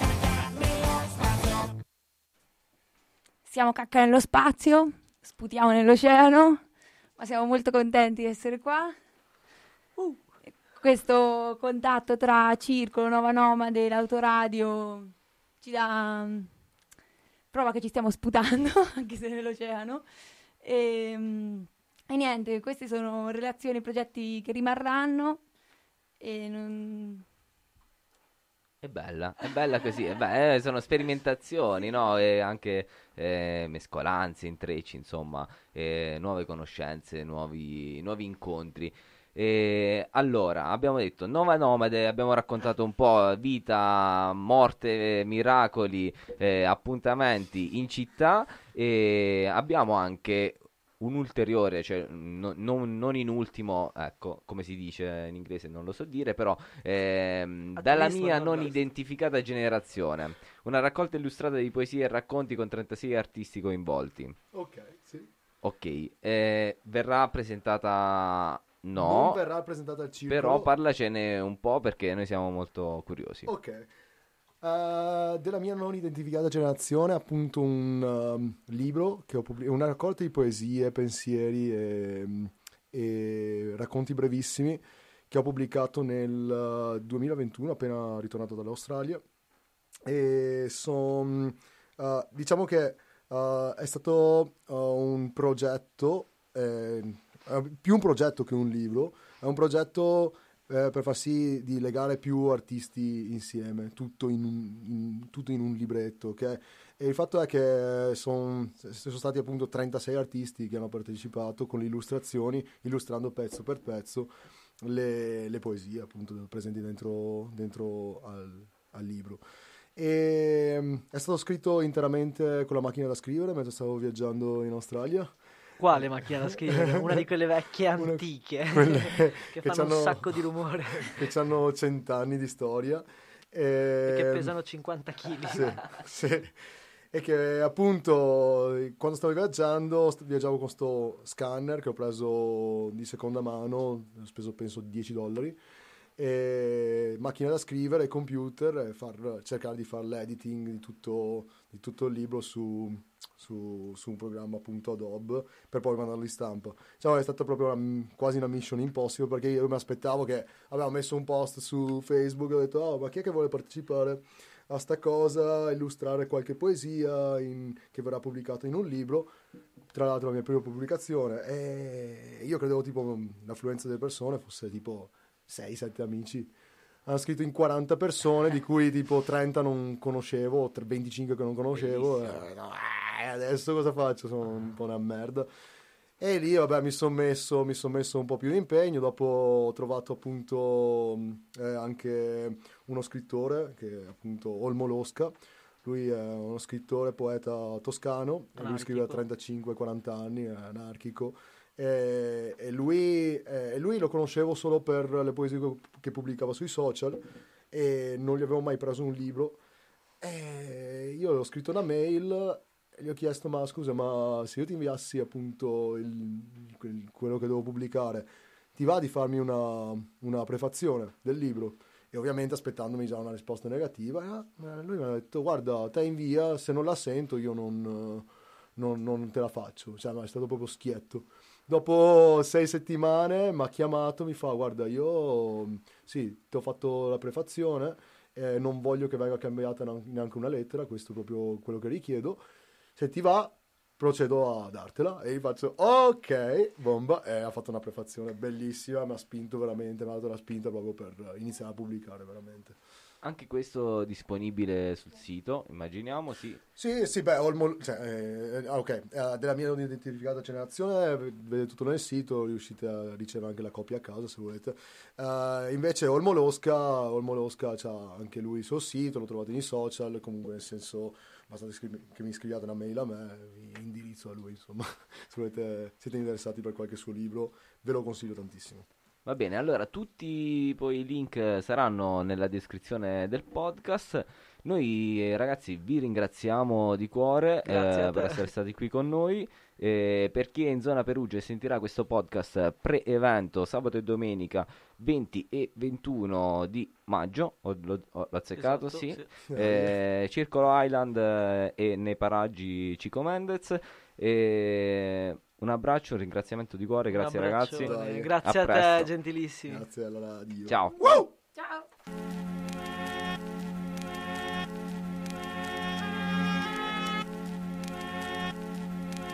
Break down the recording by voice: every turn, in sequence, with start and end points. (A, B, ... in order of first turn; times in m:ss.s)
0:03.5-0:06.6 A
0:07.2-0:09.0 A
0:10.8-0:16.5 A
0:17.5-0:20.0 A
0:20.6-0:25.4 A
0:26.2-0:27.2 A
0:28.8-1:04.4 B
0:57.8-0:58.8 C
1:04.5-1:05.3 D
1:05.6-1:09.4 B
1:09.0-1:10.7 D
1:10.3-1:13.5 B
1:13.5-1:13.9 D
1:14.6-1:29.2 D
1:30.1-1:59.4 D
2:00.0-2:05.4 D
2:05.8-2:11.1 C
2:05.9-2:07.3 D
2:08.0-2:10.4 D
2:11.0-2:14.5 D
2:14.1-2:16.0 C
2:15.5-2:16.6 D
2:17.1-2:25.6 D
2:26.2-2:49.3 D
2:49.9-2:56.5 D
2:57.1-3:05.5 D
3:01.7-3:02.4 B
3:06.2-3:29.6 D
3:18.6-3:19.2 C
3:30.2-4:02.4 D
4:03.0-4:12.8 D
4:13.2-4:16.6 B
4:16.8-4:38.9 D
4:39.3-5:09.1 B
4:47.7-4:48.5 C
4:58.6-4:59.3 C
4:59.5-5:00.0 D
5:07.1-5:09.8 C
5:07.8-5:08.3 D
5:09.7-5:11.3 D
5:10.7-5:11.0 B
5:11.6-5:11.8 A